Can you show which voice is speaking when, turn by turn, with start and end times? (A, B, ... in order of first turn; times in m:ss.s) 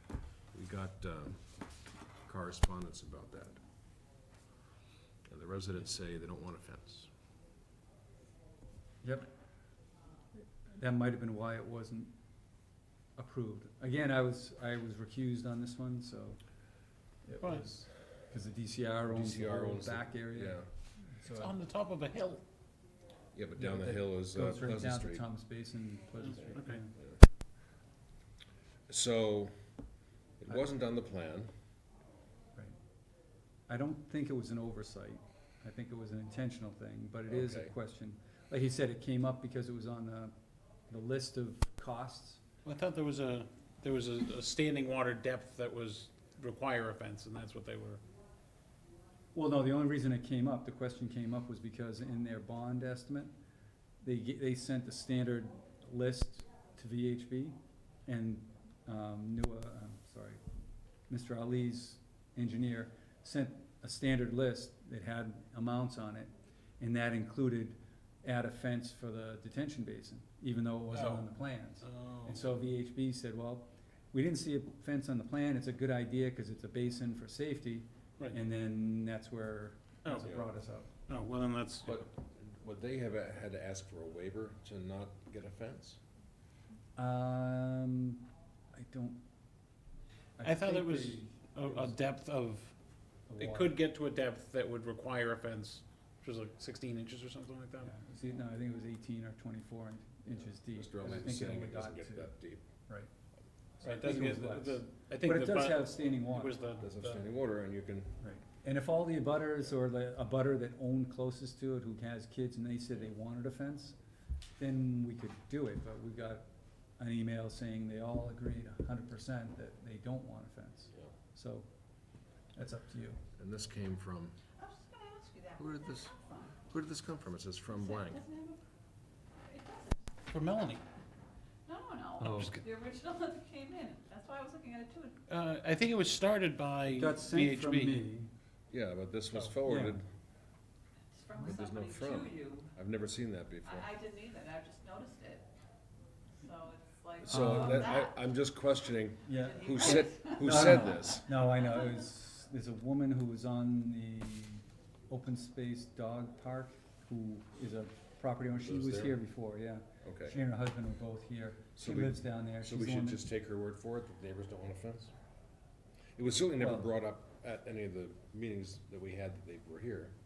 0:00.5-0:01.4 A
0:02.2-0:03.6 A
0:05.3-0:07.1 A
0:09.0-0:09.3 B
0:10.7-0:12.1 B
0:13.2-0:16.4 B
0:17.2-0:21.6 B
0:17.4-0:17.7 C
0:19.1-0:20.7 A
0:21.3-0:22.4 C
0:23.3-0:25.3 A
0:23.6-0:26.9 B
0:26.4-0:26.8 C
0:28.9-0:29.5 A
0:30.4-0:31.5 A
0:33.7-0:40.3 B
0:37.3-0:37.7 A
0:40.9-0:42.4 B
0:42.6-0:48.0 C
0:49.3-0:53.3 B
0:54.0-1:00.4 B
1:01.1-1:20.9 B
1:10.9-1:11.3 C
1:11.8-1:12.6 C
1:20.0-1:20.5 C
1:21.1-1:21.9 C
1:21.8-1:26.0 A
1:27.0-1:29.2 B
1:30.4-1:32.0 B
1:30.4-1:32.7 C
1:33.3-1:33.7 B
1:33.4-1:37.9 C
1:37.8-1:42.3 B
1:40.5-1:42.6 A
1:43.8-1:46.6 B
1:43.8-1:47.2 C
1:46.8-1:48.2 A
1:48.2-1:54.0 B
1:54.6-1:56.4 B
1:57.0-2:01.7 B
2:02.5-2:03.2 B
2:03.4-2:04.4 A
2:04.6-2:06.5 D
2:05.6-2:08.2 A
2:07.8-2:08.6 D
2:09.4-2:10.1 D
2:10.3-2:10.8 C
2:11.7-2:15.2 D
2:12.2-2:12.6 B
2:12.2-2:12.6 C
2:15.3-2:18.1 C
2:16.9-2:18.3 B
2:18.7-2:20.0 A
2:19.6-2:20.0 B
2:21.1-2:22.7 D
2:21.4-2:23.9 A
2:23.6-2:25.4 D
2:26.4-2:28.1 D
2:27.2-2:31.3 A
2:27.2-2:27.9 B
2:29.2-2:43.2 B
2:29.4-2:30.6 D
2:38.6-2:39.2 A
2:40.0-2:40.4 A
2:41.8-2:45.1 A
2:46.2-2:50.2 A
2:46.6-2:46.9 B